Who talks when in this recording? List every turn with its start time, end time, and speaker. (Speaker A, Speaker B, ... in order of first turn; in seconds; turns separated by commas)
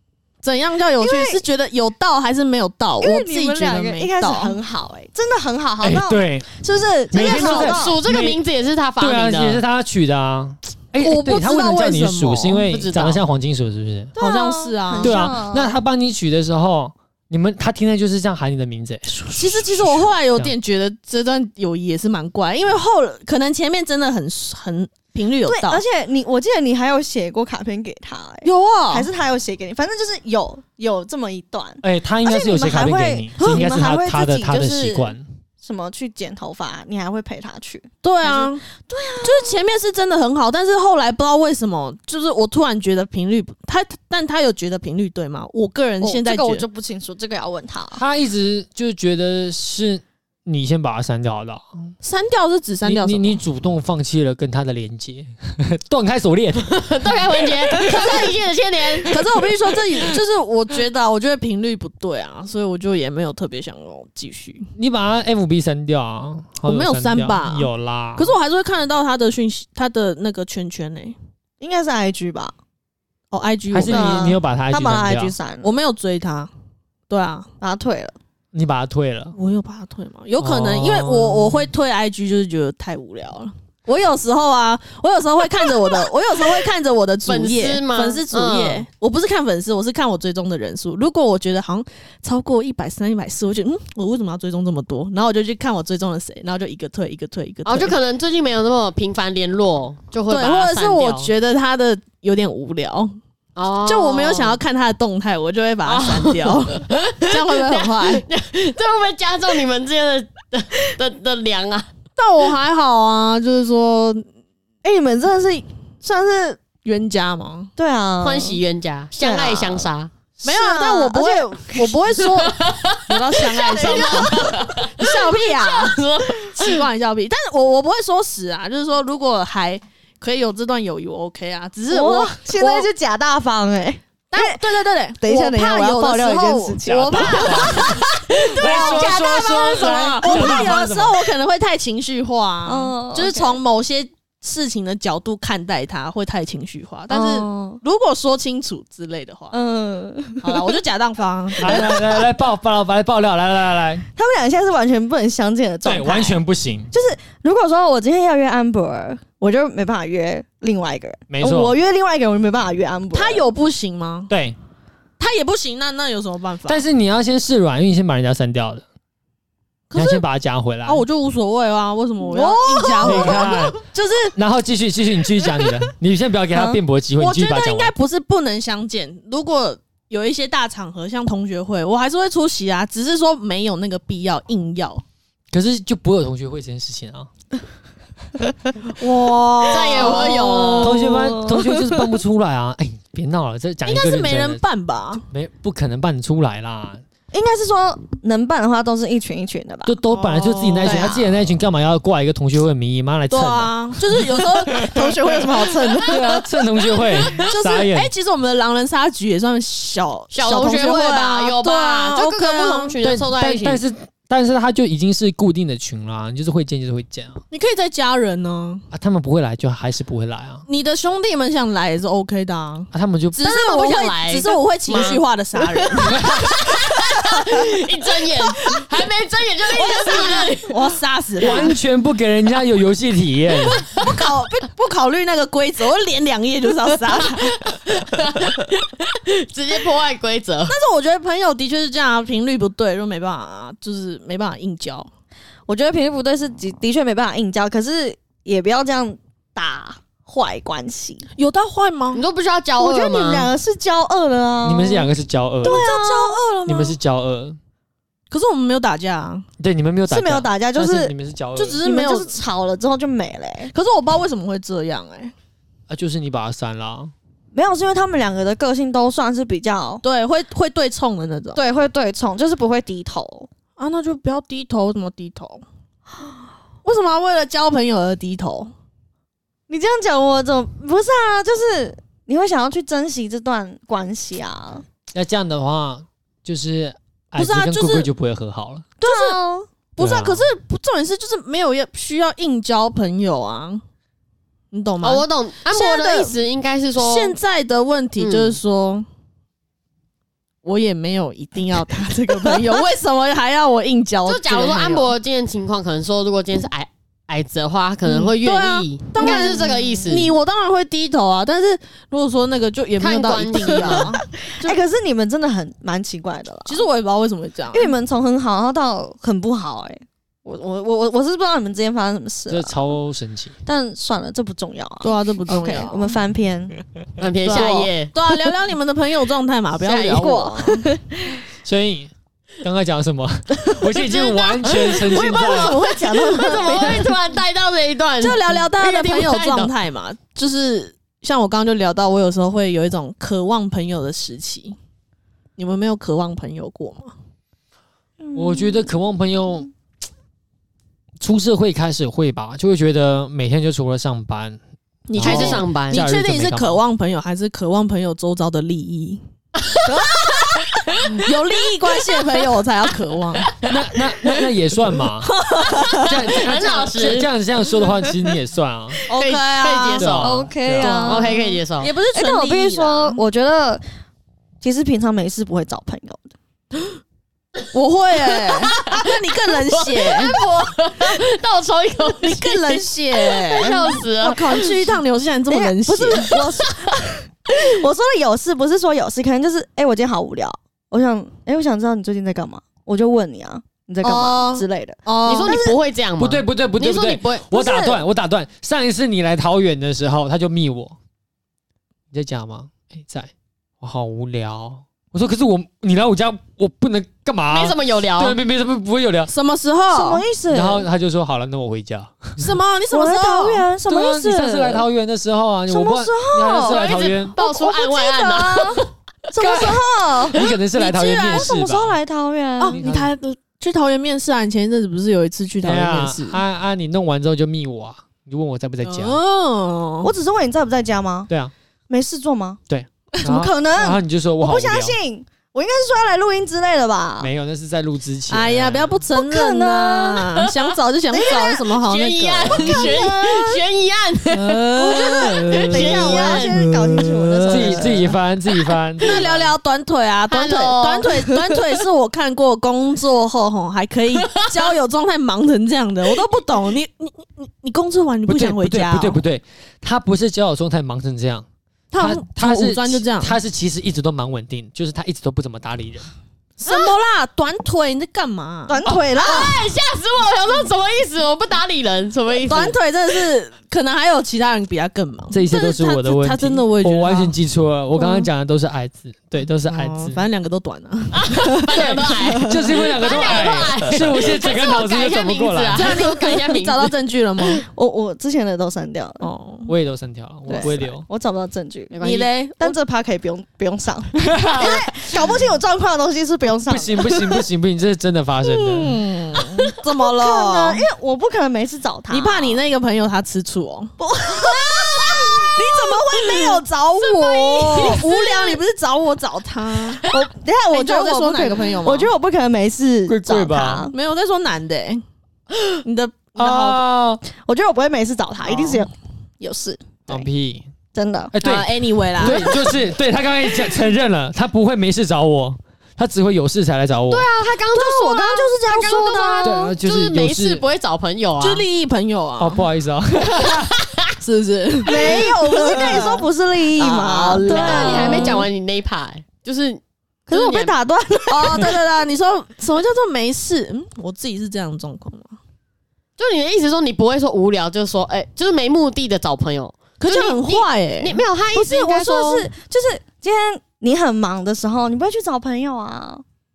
Speaker A: 0.4-4.6, Speaker B: 1.0-1.4, Speaker B: 3.0-8.0, Speaker C: 5.8-6.5, Speaker C: 7.1-8.4, Speaker D: 7.1-9.6, Speaker C: 9.0-14.2, Speaker A: 11.0-12.7, Speaker D: 12.7-13.2, Speaker A: 14.2-15.2, Speaker B: 14.2-15.8, Speaker C: 15.0-20.5, Speaker A: 19.3-25.8, Speaker B: 25.4-39.6, Speaker A: 28.4-29.1, Speaker C: 31.8-35.2, Speaker A: 33.4-33.7, Speaker A: 38.0-38.6, Speaker A: 39.2-46.7, Speaker B: 46.0-48.0, Speaker C: 47.9-51.9, Speaker A: 52.0-53.4, Speaker C: 52.9-56.9, Speaker D: 56.6-59.2, Speaker A: 59.0-64.7, Speaker C: 64.8-68.3, Speaker A: 66.6-71.2, Speaker B: 71.6-72.5, Speaker A: 73.3-74.3, Speaker C: 73.7-75.3, Speaker B: 73.8-75.7, Speaker A: 75.6-76.5, Speaker A: 77.1-77.5, Speaker B: 77.6-78.2, Speaker C: 78.5-79.4, Speaker A: 79.3-98.0, Speaker C: 80.4-81.7, Speaker D: 87.3-88.8, Speaker D: 97.7-101.3, Speaker A: 100.3-103.1, Speaker D: 103.6-104.6, Speaker A: 103.8-108.2, Speaker D: 105.8-111.9, Speaker A: 112.2-114.2, Speaker B: 114.8-116.6, Speaker A: 116.8-117.7, Speaker B: 117.8-118.6, Speaker D: 118.2-120.1, Speaker B: 119.2-119.9, Speaker B: 120.4-121.9, Speaker A: 120.4-132.9, Speaker D: 122.4-126.8, Speaker B: 123.6-124.8, Speaker B: 131.9-134.6, Speaker A: 134.3-149.5, Speaker B: 135.2-137.9, Speaker C: 137.1-141.2, Speaker D: 137.4-137.9, Speaker B: 138.6-139.2, Speaker D: 138.8-139.2, Speaker B: 140.2-140.7, Speaker B: 142.7-143.6, Speaker B: 147.1-147.8, Speaker B: 149.5-150.7, Speaker A: 150.4-152.0, Speaker C: 151.6-154.1, Speaker B: 151.6-152.0, Speaker B: 154.2-156.4, Speaker C: 155.8-156.9, Speaker B: 156.9-163.4, Speaker C: 161.3-161.8, Speaker A: 163.1-164.3, Speaker C: 164.3-164.6, Speaker A: 165.2-166.8, Speaker C: 166.7-168.8, Speaker A: 169.9-170.2, Speaker C: 169.9-171.1, Speaker A: 170.8-174.3, Speaker B: 172.2-173.5, Speaker C: 173.0-173.8, Speaker C: 174.3-177.9, Speaker B: 176.5-176.8, Speaker A: 177.2-185.0, Speaker C: 185.5-187.3, Speaker A: 188.9-190.9, Speaker B: 189.2-192.1, Speaker D: 189.7-191.0, Speaker C: 190.8-194.6, Speaker A: 193.8-195.2, Speaker C: 195.3-197.0, Speaker B: 197.3-200.0, Speaker C: 199.9-204.4, Speaker A: 200.1-201.2, Speaker B: 200.8-201.4, Speaker A: 203.3-205.1, Speaker B: 204.6-206.4, Speaker C: 206.1-208.1, Speaker A: 207.4-213.0, Speaker D: 210.3-213.8, Speaker C: 213.0-217.4, Speaker A: 217.5-218.8, Speaker C: 218.9-220.6, Speaker A: 220.7-226.5, Speaker C: 222.9-223.5, Speaker D: 223.4-225.2, Speaker D: 226.1-231.7, Speaker C: 226.2-226.4, Speaker A: 229.7-231.8, Speaker C: 231.4-233.8, Speaker A: 233.9-238.6, Speaker D: 237.9-240.8, Speaker A: 240.7-245.1, Speaker B: 245.7-251.3, Speaker A: 251.4-252.2, Speaker D: 252.1-253.5, Speaker B: 252.8-255.1, Speaker C: 254.6-255.9, Speaker B: 255.6-256.8, Speaker A: 255.6-256.9, Speaker C: 256.7-257.6, Speaker A: 258.3-259.4, Speaker C: 259.6-261.8, Speaker B: 260.1-261.1, Speaker A: 261.6-262.4, Speaker B: 261.8-263.7, Speaker A: 263.7-265.3, Speaker C: 265.9-267.1, Speaker B: 267.5-270.0, Speaker A: 270.0-271.6, Speaker B: 271.6-273.5, Speaker A: 273.8-275.6, Speaker A: 276.9-278.7, Speaker B: 279.7-284.8, Speaker C: 285.1-288.9, Speaker A: 287.4-288.1, Speaker A: 289.0-289.4, Speaker B: 289.0-289.7, Speaker A: 289.9-293.8, Speaker C: 290.0-290.4, Speaker A: 294.7-296.4, Speaker D: 295.0-297.4, Speaker A: 297.0-299.1, Speaker D: 298.2-298.6, Speaker A: 300.6-305.1, Speaker D: 304.3-310.3, Speaker A: 308.1-314.8, Speaker B: 309.2-310.1, Speaker D: 313.0-314.1, Speaker B: 314.6-316.9, Speaker A: 316.7-317.9, Speaker B: 317.7-322.8, Speaker C: 322.5-323.6, Speaker B: 323.7-326.8, Speaker A: 325.0-326.1, Speaker D: 327.2-328.1, Speaker A: 327.5-330.9, Speaker B: 329.9-331.4, Speaker C: 331.6-332.1, Speaker C: 332.6-335.8, Speaker D: 334.0-339.7, Speaker B: 335.1-337.1, Speaker A: 338.2-344.8, Speaker A: 345.6-347.1, Speaker B: 348.2-348.9, Speaker C: 348.3-349.7, Speaker C: 351.2-354.6, Speaker A: 355.1-359.2, Speaker C: 355.1-356.8, Speaker D: 355.2-356.0, Speaker D: 359.6-361.2, Speaker A: 359.9-360.4, Speaker A: 361.1-363.5, Speaker D: 363.5-363.8, Speaker C: 363.6-365.4, Speaker A: 365.2-366.1, Speaker D: 365.9-367.3, Speaker C: 366.0-369.0, Speaker A: 369.1-370.2, Speaker D: 369.1-371.9, Speaker C: 370.0-371.2, Speaker B: 370.2-371.6, Speaker A: 370.8-373.2, Speaker B: 372.1-373.8, Speaker B: 374.6-376.3, Speaker A: 377.7-380.4, Speaker D: 378.7-384.9, Speaker A: 382.2-386.4, Speaker B: 385.5-395.8, Speaker A: 394.0-395.6, Speaker D: 395.3-397.5, Speaker C: 396.2-401.0, Speaker B: 397.6-398.0, Speaker C: 402.1-409.3, Speaker D: 407.5-408.4, Speaker A: 409.3-410.2, Speaker B: 409.9-410.9, Speaker C: 410.5-412.5, Speaker A: 412.4-413.7, Speaker B: 412.9-414.9, Speaker C: 413.9-417.4, Speaker B: 415.7-416.8, Speaker D: 416.6-418.9, Speaker B: 417.4-422.8, Speaker C: 419.4-422.0, Speaker A: 420.8-421.5, Speaker A: 422.6-426.4, Speaker C: 422.7-423.1, Speaker C: 425.6-429.2, Speaker A: 428.8-430.1, Speaker B: 430.0-431.3, Speaker B: 431.9-432.6, Speaker C: 432.7-435.0, Speaker B: 433.2-437.3, Speaker C: 437.2-439.0, Speaker A: 438.3-442.9, Speaker B: 439.1-440.3, Speaker B: 441.1-441.7, Speaker D: 441.8-446.7, Speaker B: 442.5-443.6, Speaker C: 444.3-449.5, Speaker A: 444.8-445.2, Speaker B: 444.9-448.2, Speaker A: 449.0-459.2, Speaker D: 450.3-451.3, Speaker D: 454.1-454.7, Speaker C: 458.3-461.5, Speaker A: 461.9-463.4, Speaker C: 462.0-466.1, Speaker A: 466.6-468.8, Speaker D: 466.7-466.9, Speaker B: 468.7-469.6, Speaker D: 469.1-472.8, Speaker A: 472.5-477.4, Speaker C: 475.3-480.2, Speaker A: 479.6-482.6, Speaker D: 481.1-486.9, Speaker C: 481.7-485.9, Speaker A: 485.7-487.6, Speaker B: 487.7-489.3, Speaker A: 489.2-489.7, Speaker C: 489.7-491.1, Speaker B: 490.5-491.9, Speaker D: 491.9-492.3, Speaker A: 492.0-492.8, Speaker B: 492.6-497.5, Speaker C: 494.2-494.9, Speaker C: 496.7-499.1, Speaker A: 498.4-500.9, Speaker B: 500.0-502.6, Speaker A: 502.1-504.5, Speaker B: 504.0-508.1, Speaker D: 504.6-505.4, Speaker A: 505.5-510.1, Speaker D: 507.0-508.6, Speaker B: 510.1-513.9, Speaker A: 510.7-512.1, Speaker C: 513.1-513.9, Speaker A: 513.9-515.0, Speaker A: 515.8-516.8, Speaker C: 516.4-517.2, Speaker B: 517.3-520.3, Speaker A: 518.5-518.8, Speaker C: 520.1-520.7, Speaker B: 520.9-521.3, Speaker C: 521.3-527.3, Speaker A: 521.4-522.6, Speaker B: 522.2-522.5, Speaker D: 527.1-531.6, Speaker B: 527.7-529.7, Speaker C: 529.4-530.6, Speaker A: 531.4-532.6, Speaker C: 532.4-533.8, Speaker D: 533.7-534.0, Speaker A: 534.2-536.2, Speaker B: 534.9-538.5, Speaker D: 535.7-536.1, Speaker D: 536.8-540.8, Speaker A: 537.4-538.5, Speaker B: 540.3-541.8, Speaker A: 541.3-545.4, Speaker D: 546.2-552.5, Speaker A: 550.0-551.2, Speaker B: 551.5-556.2